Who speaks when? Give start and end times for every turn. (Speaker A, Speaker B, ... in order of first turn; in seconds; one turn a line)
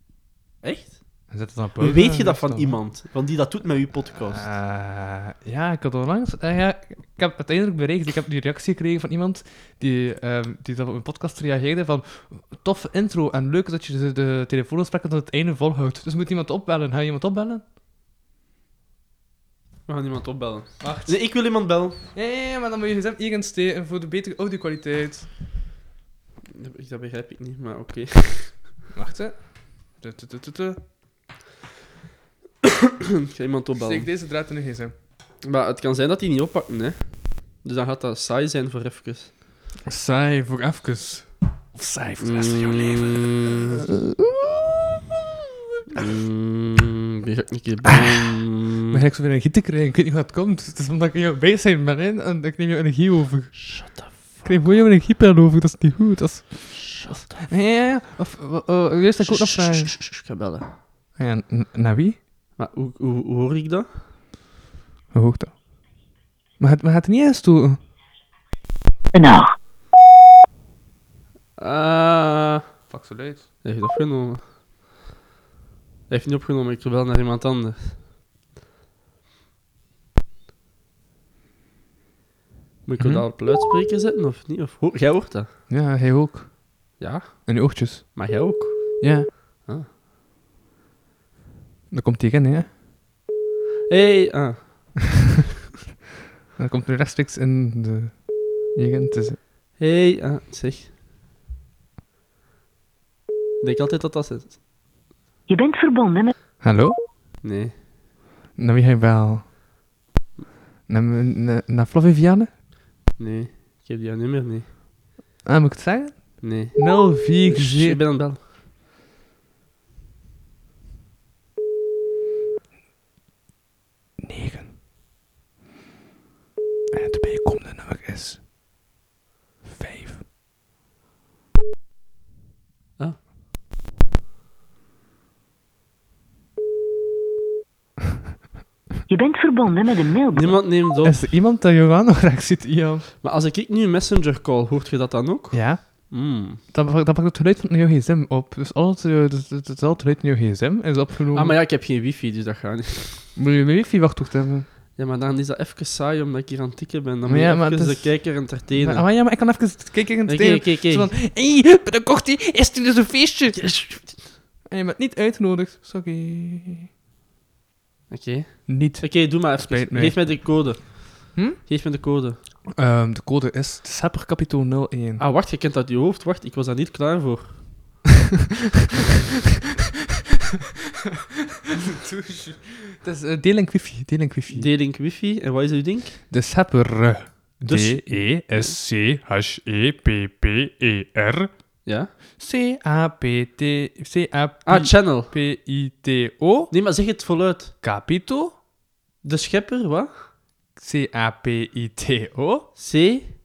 Speaker A: 0.6-4.5
Speaker B: 1.3-2.8
Speaker B: 4.2-17.6
Speaker A: 19.9-22.0
Speaker B: 20.8-25.3
Speaker A: 26.5-28.7
Speaker B: 28.9-30.8
Speaker A: 32.6-34.1
Speaker B: 33.7-34.9
Speaker A: 35.4-39.3
Speaker B: 39.9-43.4
Speaker A: 42.2-43.8
Speaker B: 44.0-44.7
Speaker A: 45.9-49.0
Speaker B: 48.9-53.8
Speaker A: 53.5-54.7
Speaker B: 54.4-56.9
Speaker A: 56.7-57.5
Speaker B: 57.5-60.0
Speaker A: 59.2-60.7
Speaker B: 61.1-62.2
Speaker A: 62.6-63.9
Speaker B: 65.1-66.0
Speaker B: 66.6-67.8
Speaker C: 69.1-69.5
Speaker A: 71.6-72.8
Speaker B: 72.9-73.5
Speaker A: 73.6-74.4
Speaker A: 76.1-78.0
Speaker A: 82.8-85.5
Speaker B: 83.0-83.2
Speaker B: 85.7-88.4
Speaker A: 87.0-89.9
Speaker B: 89.0-89.3
Speaker B: 91.9-92.7
Speaker A: 93.9-95.0
Speaker B: 96.6-99.4
Speaker A: 99.8-100.9
Speaker A: 103.6-104.6
Speaker C: 105.5-106.3
Speaker B: 106.6-107.0
Speaker A: 107.4-107.7
Speaker B: 108.5-109.5
Speaker B: 110.9-112.5
Speaker A: 113.2-114.7
Speaker B: 115.4-118.0
Speaker A: 116.4-118.4
Speaker B: 124.2-124.7
Speaker B: 126.9-128.4
Speaker B: 129.7-130.2
Speaker C: 139.1-140.6
Speaker A: 140.3-141.3
Speaker B: 141.0-143.0
Speaker A: 143.2-146.6
Speaker B: 145.5-151.6
Speaker A: 151.3-153.3
Speaker B: 153.3-154.7
Speaker A: 154.9-159.1
Speaker B: 157.2-163.7
Speaker A: 160.3-161.1
Speaker A: 163.5-164.3
Speaker B: 164.7-166.9
Speaker A: 168.1-172.4
Speaker B: 168.7-170.6
Speaker B: 172.7-175.2
Speaker A: 175.2-177.7
Speaker B: 181.9-184.7
Speaker A: 184.5-186.2
Speaker B: 186.3-191.5
Speaker A: 187.7-188.8
Speaker A: 191.8-192.1
Speaker B: 192.4-196.7
Speaker A: 194.6-195.3
Speaker A: 196.7-197.7
Speaker B: 197.8-198.6
Speaker A: 199.2-200.2
Speaker B: 200.8-202.7
Speaker A: 202.8-203.3